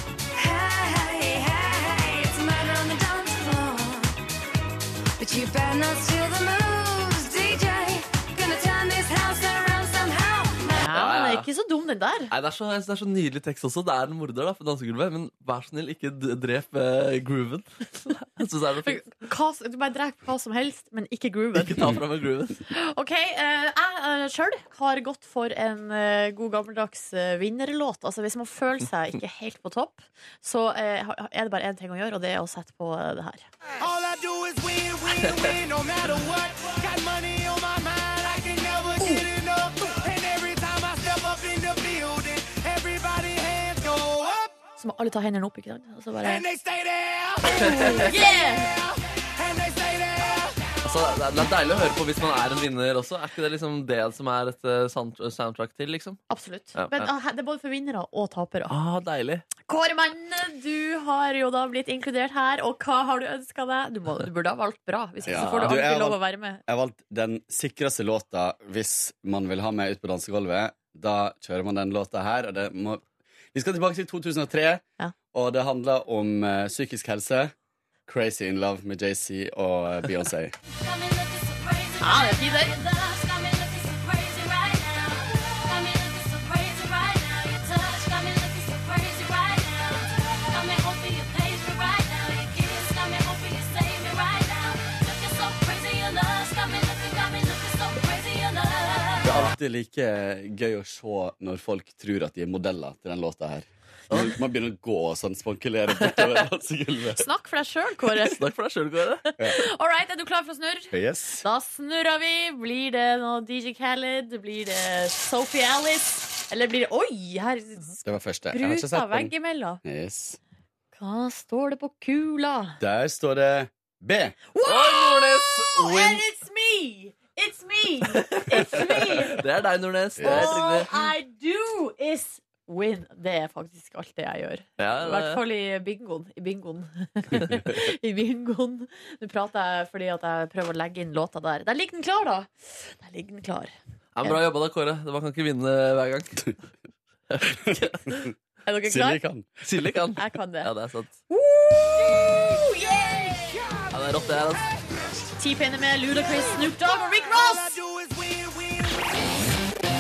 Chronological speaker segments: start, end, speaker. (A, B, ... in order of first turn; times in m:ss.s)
0:00.3-0:04.2 A
0:05.2-0:10.9 A
0:10.8-0:12.3 B
0:10.9-0:11.4 C
0:12.3-0:19.0 C
0:18.8-0:21.9 B
0:21.6-0:22.6 C
0:22.7-0:33.4 B
0:33.8-0:44.5 D
0:39.0-0:39.3 B
0:44.8-0:46.4 B
0:46.2-0:50.6 D
0:47.4-0:48.7 B
0:47.5-0:48.0 C
0:50.8-0:56.2 C
0:56.3-0:58.7 B
0:56.8-0:57.1 C
0:58.7-0:59.4 C
0:59.7-1:06.6 B
1:05.2-1:17.5 E
1:05.4-1:05.8 C
1:18.1-1:20.5 E
1:20.7-1:39.4 A
1:22.0-1:22.7 B
1:39.2-1:47.2 E
1:44.1-1:44.3 C
1:46.0-1:46.4 C
1:47.2-1:48.4 B
1:48.1-1:49.3 C
1:49.4-1:59.8 B
1:50.9-1:51.4 E
1:58.0-2:00.4 E
2:00.9-2:02.8 B
2:02.8-2:04.4 E
2:04.5-2:09.4 B
2:04.6-2:06.2 C
2:08.1-2:11.1 C
2:10.2-2:10.6 E
2:10.2-2:24.4 B
2:14.8-2:15.4 C
2:24.1-2:26.5 C
2:27.3-2:28.3 C
2:28.6-2:29.2 B
2:28.8-2:29.6 E
2:29.6-2:31.1 C
2:30.2-2:30.7 B
2:31.3-2:33.6 B
2:33.9-2:34.7 C
2:35.4-2:37.8 B
2:36.1-2:39.1 D